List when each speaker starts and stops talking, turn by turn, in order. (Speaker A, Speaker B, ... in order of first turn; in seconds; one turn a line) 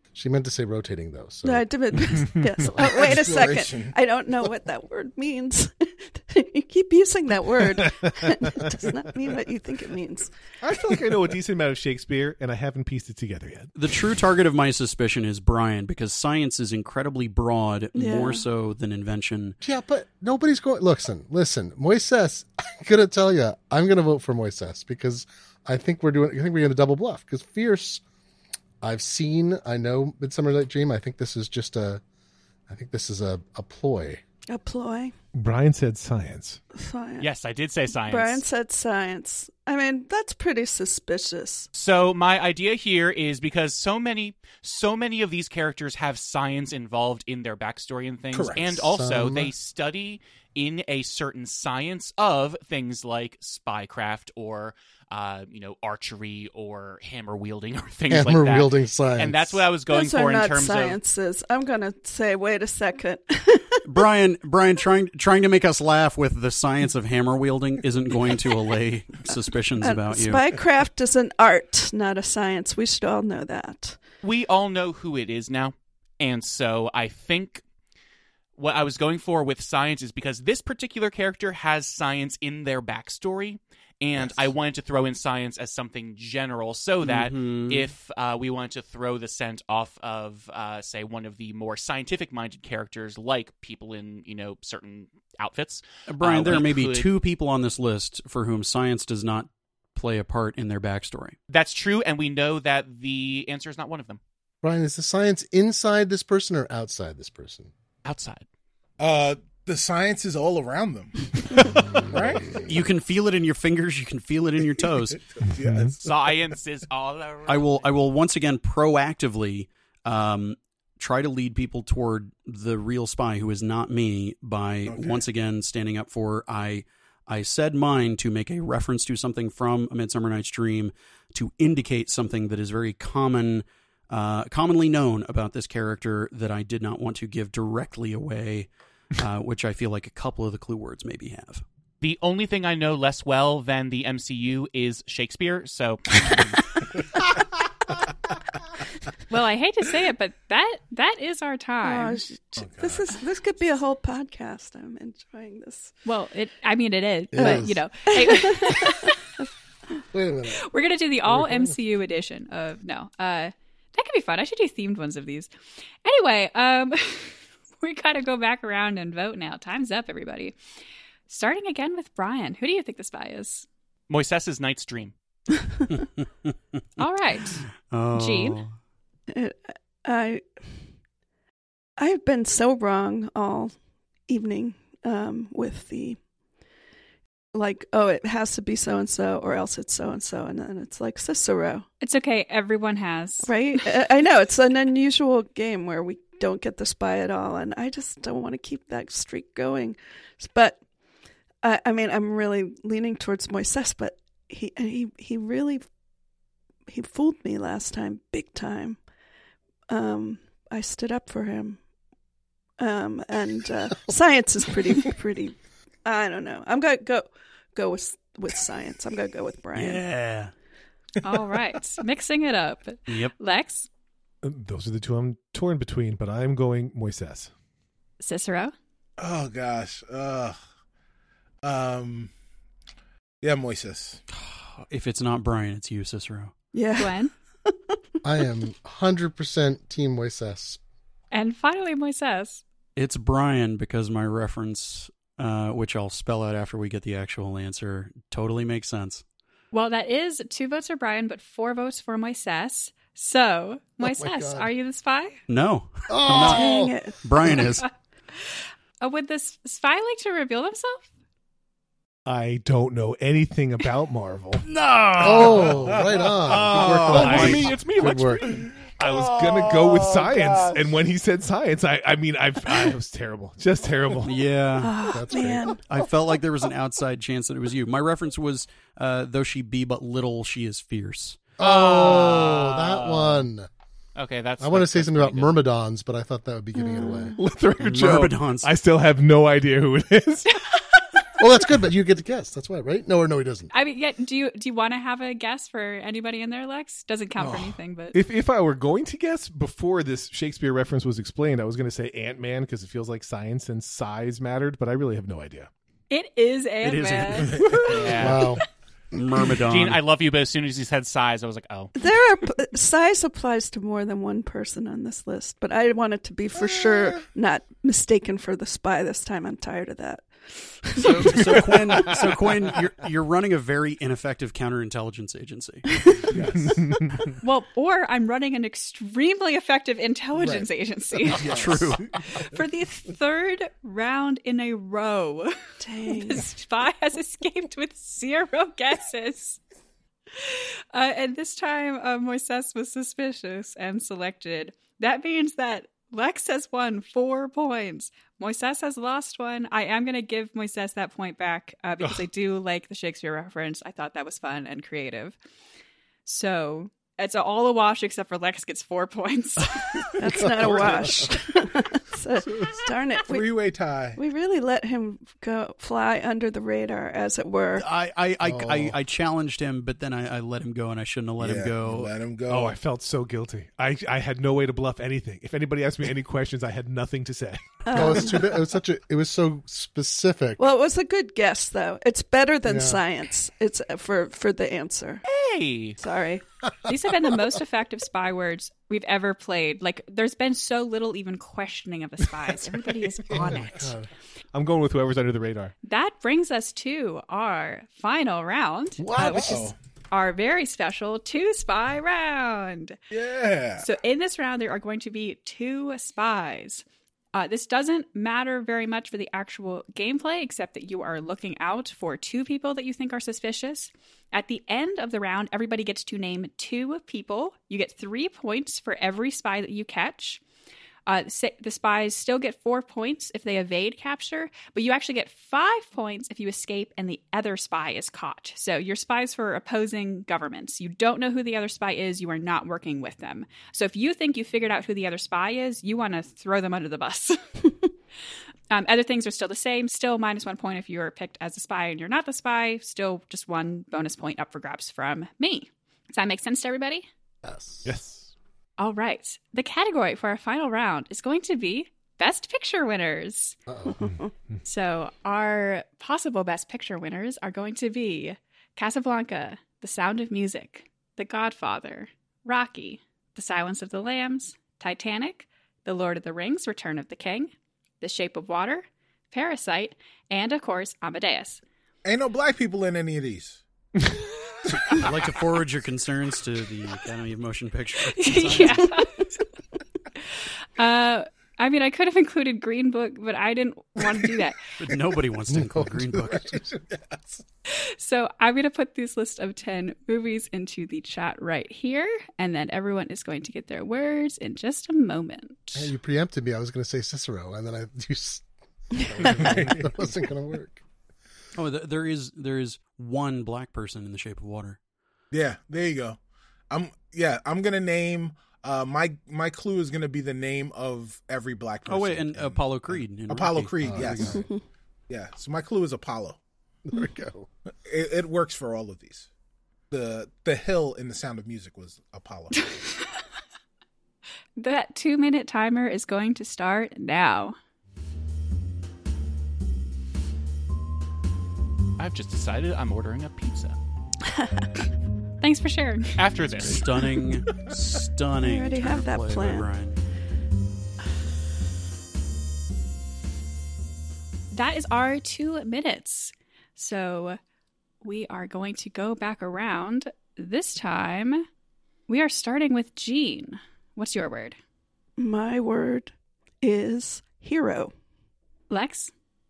Speaker A: 0.1-1.6
Speaker B: 1.4-10.3
Speaker C: 2.2-2.5
Speaker D: 2.7-4.0
Speaker C: 10.6-13.7
Speaker E: 13.8-19.6
Speaker B: 17.9-18.4
Speaker A: 19.6-28.0
Speaker A: 28.8-32.0
Speaker A: 32.7-34.2
Speaker B: 34.5-35.1
Speaker C: 35.3-36.6
Speaker B: 36.7-37.3
Speaker F: 37.2-38.4
Speaker B: 38.0-41.7
Speaker F: 41.7-61.0
Speaker D: 48.3-48.7
Speaker A: 48.8-49.5
Speaker A: 58.1-59.6
Speaker B: 59.9-63.8
Speaker E: 63.8-70.5
Speaker B: 69.8-74.0
Speaker F: 74.2-77.6
Speaker F: 78.6-97.1
Speaker E: 87.0-87.9
Speaker E: 96.1-101.3
Speaker F: 101.5-104.2
Speaker A: 104.6-107.7
Speaker F: 108.0-108.4
Speaker D: 109.0-112.7
Speaker A: 112.0-112.6
Speaker E: 112.6-115.2
Speaker D: 115.3-116.5
Speaker C: 115.6-116.0
Speaker F: 116.0-117.9
Speaker E: 117.5-141.6
Speaker D: 124.9-125.2
Speaker F: 142.0-146.6
Speaker G: 149.3-152.2
Speaker B: 151.8-155.9
Speaker D: 152.6-153.1
Speaker G: 156.1-159.2
Speaker A: 157.3-157.8
Speaker B: 157.3-158.9
Speaker A: 160.1-160.7
Speaker G: 160.6-165.5
Speaker A: 161.2-161.8
Speaker G: 166.0-170.5
Speaker G: 171.3-173.7
Speaker F: 174.1-175.1
Speaker E: 176.0-176.5
Speaker G: 177.0-178.6
Speaker E: 177.9-178.7
Speaker B: 179.3-180.4
Speaker B: 182.0-183.7
Speaker B: 184.3-186.2
Speaker B: 187.5-191.8
Speaker G: 192.0-193.8
Speaker B: 193.4-200.8
Speaker B: 201.6-205.8
Speaker B: 206.9-209.0
Speaker B: 209.9-211.8
Speaker B: 212.8-220.0
Speaker E: 219.7-220.5
Speaker G: 221.2-223.9
Speaker E: 223.1-223.3
Speaker C: 224.4-227.5
Speaker G: 228.2-228.7
Speaker D: 229.2-230.6
Speaker D: 231.6-232.3
Speaker D: 233.4-234.2
Speaker E: 234.3-236.5
Speaker B: 236.7-238.0
Speaker G: 236.9-237.3
Speaker A: 238.2-240.8
Speaker G: 241.3-242.6
Speaker E: 242.9-249.2
Speaker G: 249.7-255.4
Speaker A: 254.0-254.7
Speaker E: 255.5-256.7
Speaker A: 256.1-256.9
Speaker B: 256.3-257.2
Speaker E: 257.2-257.9
Speaker G: 258.4-261.1
Speaker C: 262.2-264.6
Speaker E: 264.6-265.9
Speaker A: 265.2-268.6
Speaker D: 265.7-267.8
Speaker C: 266.4-274.4
Speaker F: 267.2-268.3
Speaker D: 268.4-271.0
Speaker E: 274.2-275.1
Speaker B: 274.8-275.9
Speaker A: 275.1-275.8
Speaker E: 275.9-281.5
Speaker A: 281.6-283.7
Speaker F: 281.6-283.5
Speaker F: 284.1-285.6
Speaker A: 284.6-287.4
Speaker B: 286.8-287.3
Speaker C: 287.4-290.6
Speaker E: 287.8-288.7
Speaker A: 291.4-293.7
Speaker G: 293.7-298.2
Speaker D: 297.4-297.8
Speaker C: 298.1-305.7
Speaker G: 306.1-308.1
Speaker E: 306.8-308.4
Speaker D: 307.4-308.3
Speaker F: 307.9-308.5
Speaker A: 308.2-308.6
Speaker E: 309.1-310.0
Speaker F: 309.4-311.9
Speaker B: 311.9-321.9
Speaker D: 316.6-317.2
Speaker E: 320.9-325.8
Speaker D: 326.3-326.9
Speaker C: 326.6-327.3
Speaker G: 327.4-335.5
Speaker D: 331.3-331.9
Speaker E: 331.3-332.1
Speaker B: 335.8-336.5
Speaker G: 336.1-339.6
Speaker G: 340.4-355.4
Speaker G: 356.2-360.1
Speaker B: 360.2-363.5
Speaker A: 360.4-361.3
Speaker D: 362.6-364.2
Speaker B: 364.2-367.8
Speaker E: 367.8-372.1
Speaker A: 368.4-368.9
Speaker D: 371.4-372.8
Speaker C: 372.5-377.8
Speaker B: 377.9-378.5
Speaker A: 377.9-380.6
Speaker B: 380.6-385.2
Speaker A: 382.6-383.0
Speaker F: 385.2-386.0
Speaker B: 386.0-386.4
Speaker G: 386.8-393.9
Speaker A: 393.3-394.1
Speaker C: 394.5-395.7
Speaker G: 395.8-403.0
Speaker A: 399.0-399.7
Speaker D: 399.2-399.7
Speaker D: 403.1-403.9
Speaker G: 403.8-406.8
Speaker G: 407.3-420.4
Speaker G: 421.1-437.4
Speaker G: 438.7-447.1
Speaker A: 447.4-447.9
Speaker C: 447.8-448.3
Speaker G: 448.8-453.6
Speaker A: 453.7-454.1
Speaker G: 454.6-471.6
Speaker D: 472.0-473.6
Speaker E: 474.9-478.9
Speaker G: 478.1-479.4
Speaker G: 480.8-484.6
Speaker E: 484.8-486.6
Speaker A: 485.5-486.4
Speaker D: 486.5-487.4
Speaker G: 487.7-495.9
Speaker A: 495.7-498.4
Speaker A: 498.9-500.8
Speaker B: 499.0-499.3
Speaker D: 499.2-499.9
Speaker E: 501.5-504.8
Speaker D: 505.3-506.2
Speaker D: 506.7-514.4
Speaker E: 511.9-514.4
Speaker A: 513.8-514.4
Speaker B: 514.3-514.6
Speaker D: 515.1-516.4
Speaker A: 516.9-517.5
Speaker D: 517.8-519.3
Speaker D: 519.9-522.7
Speaker G: 524.6-527.5
Speaker F: 532.0-533.8
Speaker G: 535.4-536.2
Speaker F: 536.1-537.0
Speaker E: 536.6-540.0
Speaker B: 538.4-539.7
Speaker G: 544.5-547.4
Speaker G: 548.0-551.4
Speaker G: 552.1-554.5
Speaker B: 555.2-557.9
Speaker G: 558.7-559.1